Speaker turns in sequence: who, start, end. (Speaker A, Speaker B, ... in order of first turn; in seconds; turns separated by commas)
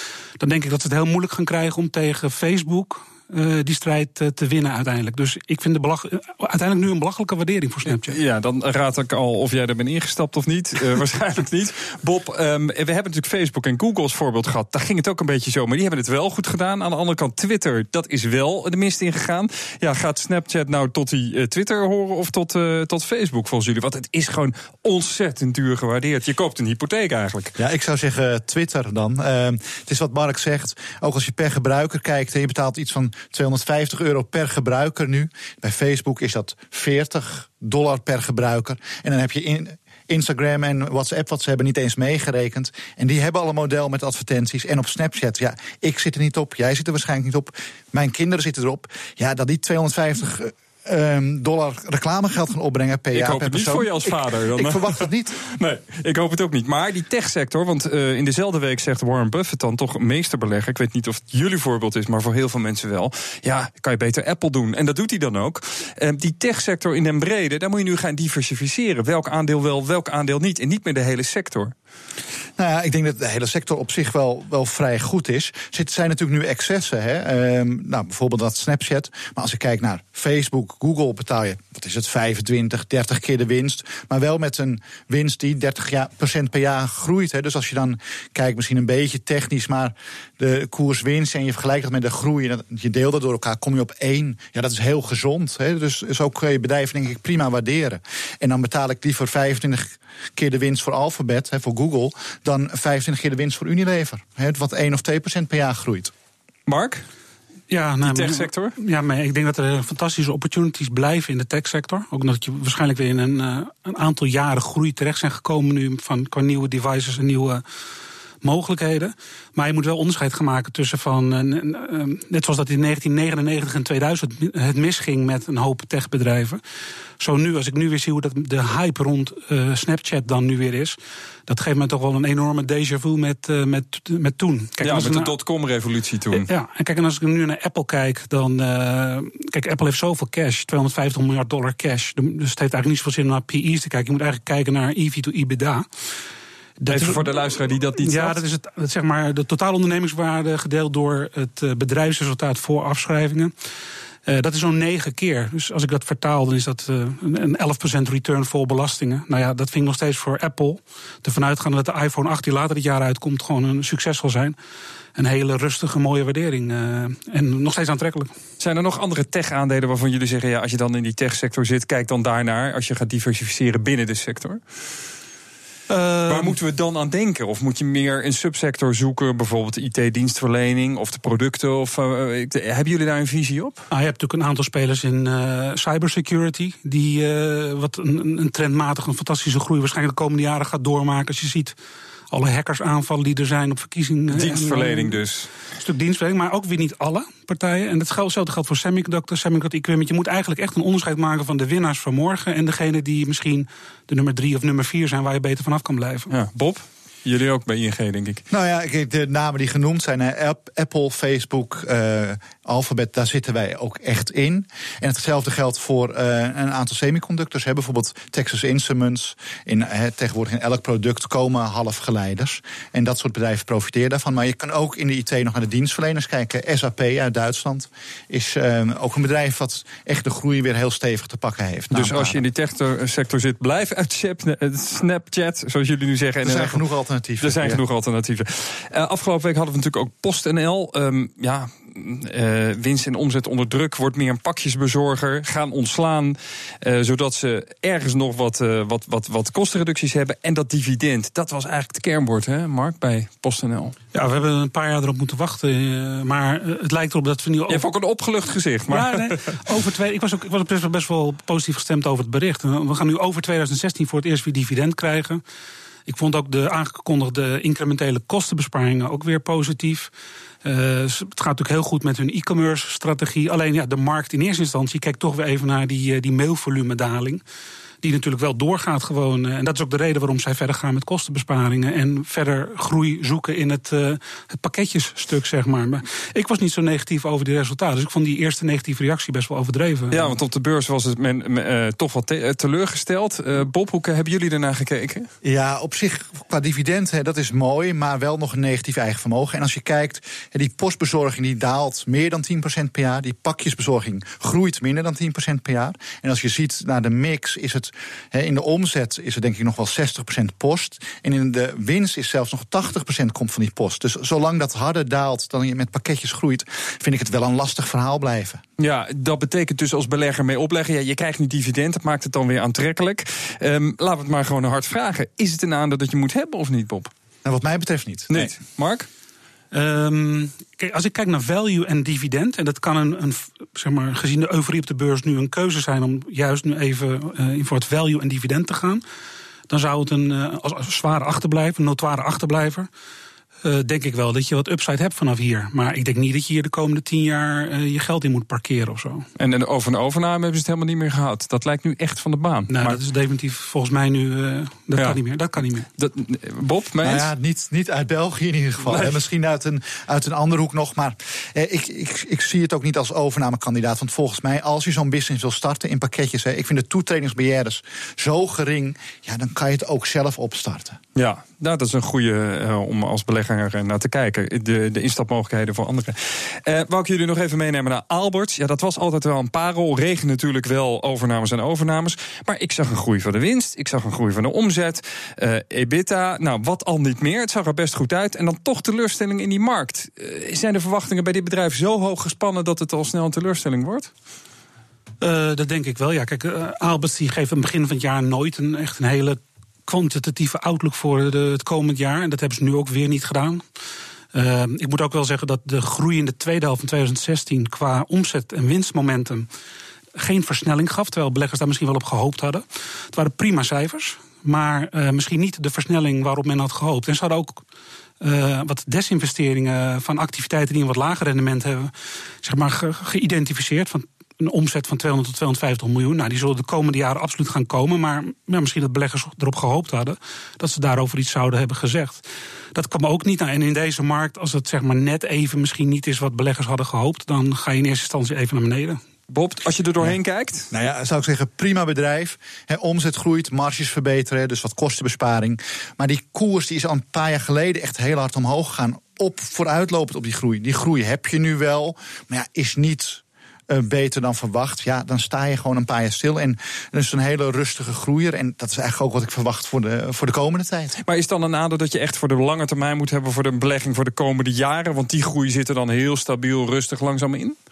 Speaker A: 0.4-8.2, Speaker B: 8.0-27.6, Speaker C: 27.6-55.5, Speaker B: 53.1-71.7, Speaker C: 72.6-106.1, Speaker B: 106.7-107.0, Speaker A: 107.7-117.6, Speaker B: 108.0-108.7, Speaker A: 118.4-126.6, Speaker A: 127.2-135.3, Speaker B: 134.8-136.5, Speaker A: 136.3-145.9, Speaker A: 146.8-147.3, Speaker B: 146.9-148.4, Speaker A: 148.0-153.5, Speaker A: 154.3-164.6, Speaker A: 165.2-168.3, Speaker B: 168.6-174.6, Speaker A: 175.9-176.6, Speaker B: 176.3-183.9, Speaker A: 183.9-191.8, Speaker A: 192.3-195.2, Speaker B: 194.3-195.5, Speaker A: 195.8-206.3, Speaker B: 206.3-208.4, Speaker C: 208.5-232.4, Speaker B: 231.9-236.8, Speaker C: 236.4-237.8, Speaker B: 237.4-254.0, Speaker A: 254.1-257.9, Speaker B: 257.7-259.5, Speaker A: 258.9-265.4, Speaker A: 266.1-270.1, Speaker A: 270.6-277.4, Speaker A: 278.0-290.3, Speaker B: 290.1-295.3, Speaker C: 295.4-318.6, Speaker B: 318.8-327.1, Speaker C: 327.4-328.5, Speaker B: 328.3-329.1, Speaker A: 329.7-339.0, Speaker A: 339.7-342.9, Speaker A: 343.6-349.3, Speaker B: 349.4-353.0, Speaker A: 352.7-355.9, Speaker B: 356.0-357.3, Speaker C: 357.0-371.0, Speaker B: 358.9-359.2, Speaker B: 371.1-394.1, Speaker A: 395.2-403.6, Speaker A: 404.3-409.5, Speaker A: 410.1-417.6, Speaker A: 418.2-439.0, Speaker B: 439.3-440.7, Speaker C: 440.7-461.0, Speaker B: 461.1-467.6